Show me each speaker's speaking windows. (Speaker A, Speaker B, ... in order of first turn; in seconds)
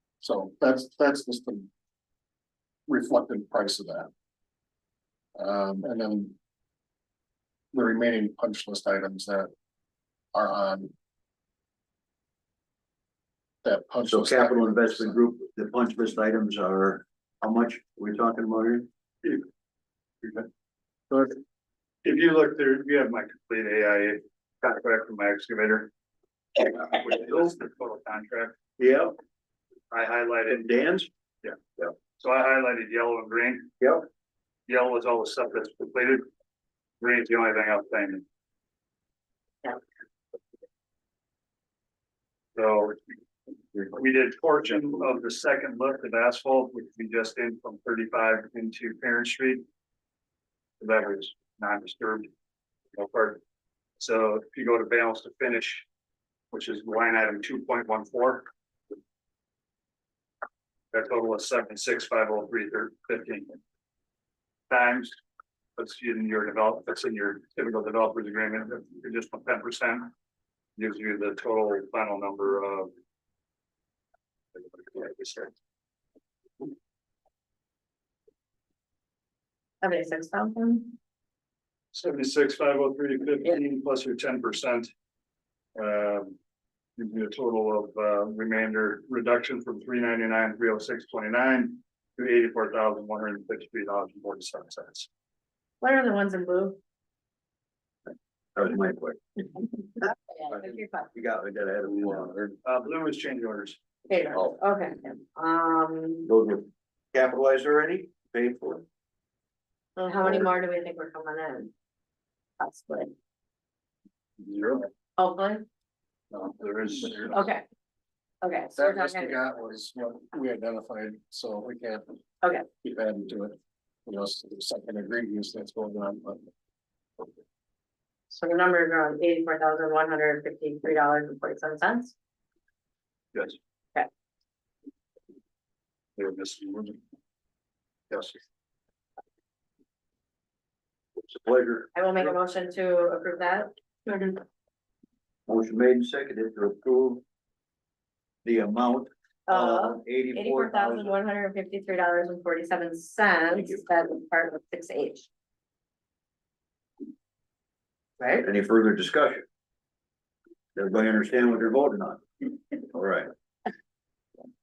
Speaker A: 0.2-1.7, 2.9-4.1, 5.3-6.3, 7.7-9.5, 10.3-10.9, 13.6-15.2, 21.1-21.4, 118.8-122.2, 122.8-126.5
Speaker B: 14.1-18.9, 28.8-29.1, 30.5-31.1, 98.5-99.2, 101.1-102.5, 106.3-108.8, 141.3-142.3, 145.5-147.2, 148.4-151.2, 158.4-159.4, 160.7-162.2, 162.9-163.3
Speaker C: 22.0-25.9, 26.8-28.5, 29.9-30.7, 32.2-33.7, 34.7-36.2, 37.0-38.2, 42.5-43.0, 43.7-49.6, 50.8-52.3, 52.9-53.4, 54.0-55.8, 56.5-58.5, 60.9-63.6, 64.7-65.2, 65.8-70.1, 70.8-72.9, 74.5-75.5, 81.9-84.9, 85.7-86.4, 87.0-95.1, 102.6-103.8, 114.4-114.9, 116.3-117.4, 136.2-137.0, 138.1-138.4
Speaker D: 79.8-81.0, 95.8-96.8, 100.3-101.1, 104.1-106.3, 110.0-111.7, 112.6-113.1, 115.2-115.7, 117.3-117.6, 118.4-119.4, 128.3-132.1, 141.9-144.4, 149.5-155.3